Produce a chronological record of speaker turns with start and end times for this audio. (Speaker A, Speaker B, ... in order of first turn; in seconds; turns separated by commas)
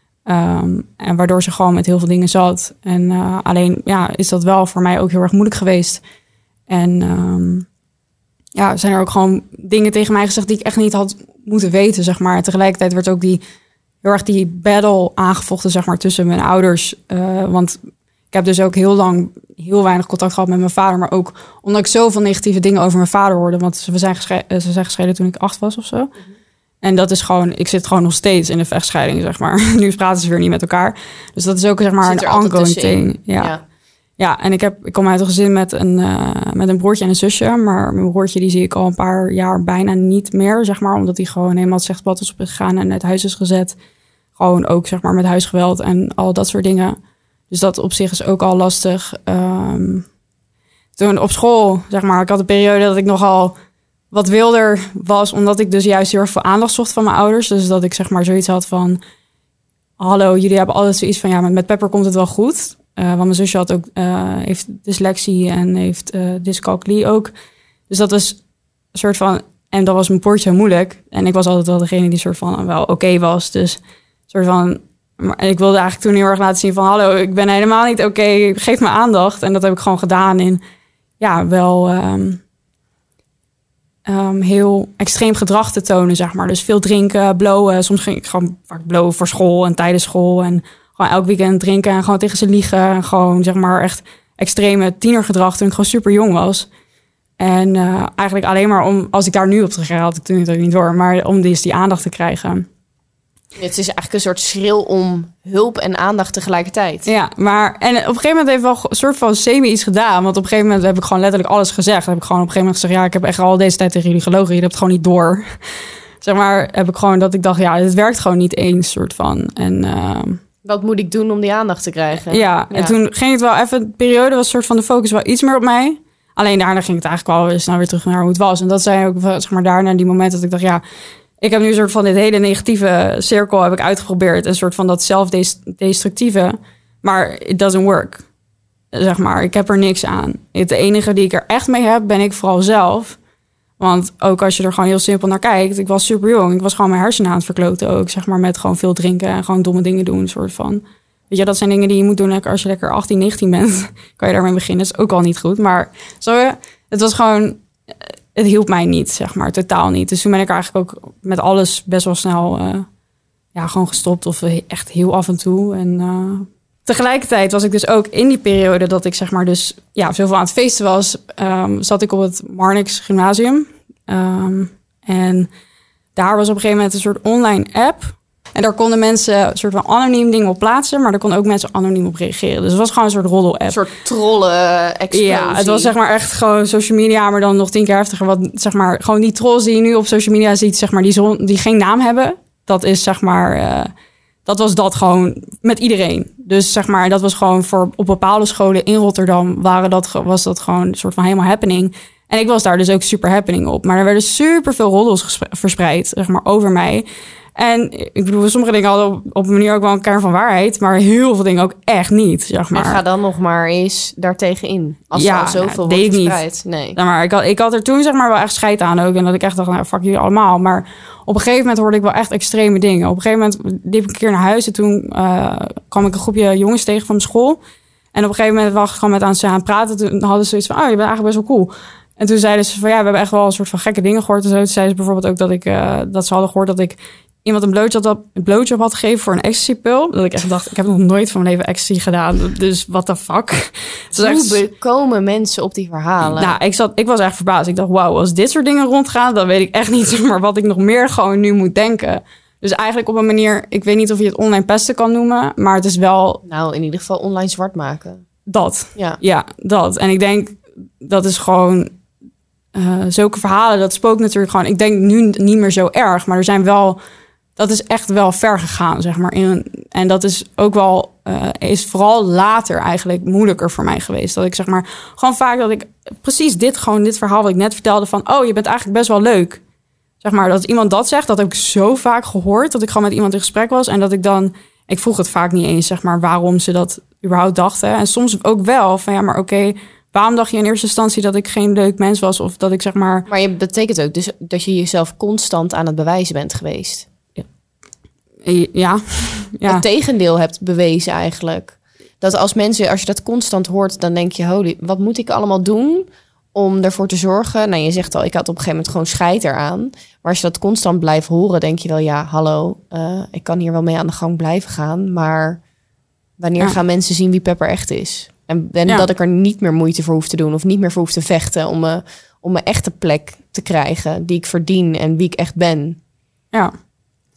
Speaker A: 0.3-6.0, Speaker A: 6.7-7.7, Speaker A: 8.6-13.4, Speaker A: 14.0-17.8, Speaker A: 18.3-26.1, Speaker A: 26.8-33.5, Speaker B: 32.0-33.6, Speaker A: 34.2-43.8, Speaker A: 44.4-47.0, Speaker A: 47.5-50.1, Speaker A: 51.0-53.6, Speaker A: 54.1-59.0, Speaker A: 60.0-67.3, Speaker A: 67.9-68.4, Speaker A: 68.9-80.6, Speaker A: 81.2-82.4, Speaker A: 84.1-96.7, Speaker A: 97.4-102.7, Speaker B: 103.5-107.1, Speaker A: 107.1-120.4, Speaker B: 120.7-123.0, Speaker A: 122.3-130.8, Speaker A: 131.4-138.3, Speaker A: 138.9-143.2, Speaker A: 143.8-162.9, Speaker A: 163.6-175.5, Speaker A: 176.2-183.8, Speaker B: 183.7-185.9, Speaker A: 185.1-193.9, Speaker A: 194.5-213.0, Speaker B: 212.7-217.0, Speaker A: 215.1-216.4, Speaker A: 217.0-227.6, Speaker A: 228.1-244.6, Speaker B: 244.1-246.5, Speaker A: 246.2-256.4, Speaker B: 256.4-258.2, Speaker A: 258.5-262.0, Speaker A: 262.7-267.0, Speaker A: 267.6-279.6, Speaker A: 280.2-293.3, Speaker B: 293.3-297.1, Speaker A: 298.4-299.8, Speaker B: 299.7-315.6, Speaker B: 316.4-326.0